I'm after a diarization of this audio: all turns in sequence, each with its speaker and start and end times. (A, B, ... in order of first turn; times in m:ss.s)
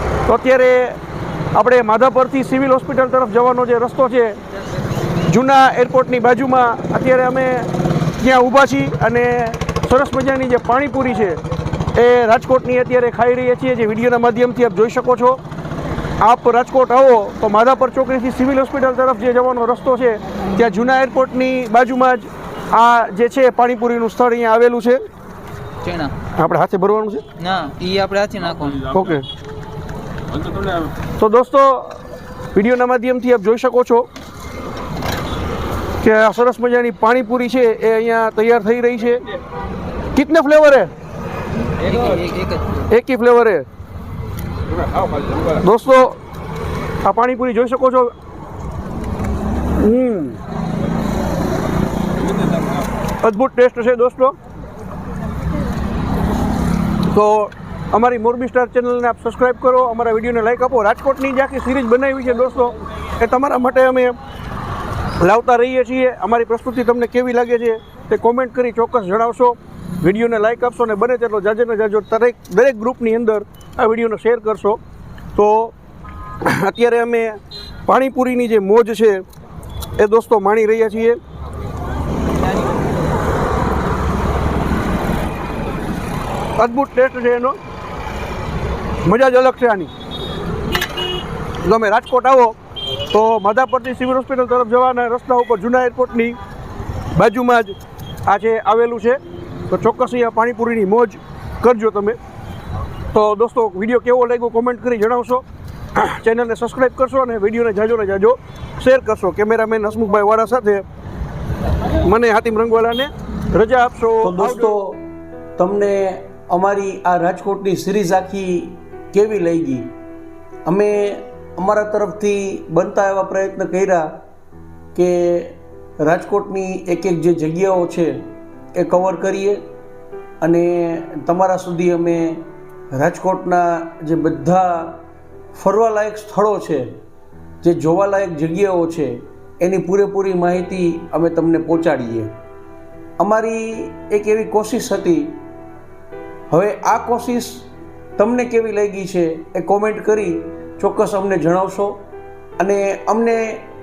0:00.3-0:01.0 A
0:01.5-0:04.4 A
0:05.3-0:11.4 A
0:12.0-0:15.4 A
0:16.2-0:25.0 A
0:25.8-0:26.1 B
0:26.4-0:27.2 A
0:27.4-0:28.9 B
0:28.9-0:29.3 A
0:31.2-0:32.0 A
0:32.6-0:34.1 A
0:36.0-0:39.2 A
0:40.2-0:40.9 A
0:41.8-0:42.9 B
0:42.9-0:43.7 A
0:45.5-0:46.2 A
0:47.0-0:48.1 A
0:49.8-0:50.4 A
0:53.2-0:54.4 A
0:57.1-1:04.2 A
1:05.2-1:14.8 A
1:15.4-1:15.7 A
1:16.4-1:19.2 A
1:20.0-1:21.2 A
1:26.6-1:27.6 A
1:29.0-1:29.9 A
1:31.6-1:32.6 A
1:33.1-1:36.4 A
1:37.1-1:42.2 A
1:43.1-1:45.4 A
1:46.0-1:50.8 A
1:52.0-1:54.7 A
1:54.2-1:55.0 C
1:55.6-1:59.9 C
2:00.7-2:04.1 C
2:05.0-2:08.2 C
2:08.8-2:09.6 C
2:10.4-2:15.0 C
2:15.5-2:16.9 C
2:17.6-2:22.3 C
2:23.2-2:25.4 C
2:26.5-2:27.7 C
2:28.2-2:32.0 C
2:32.6-2:33.6 C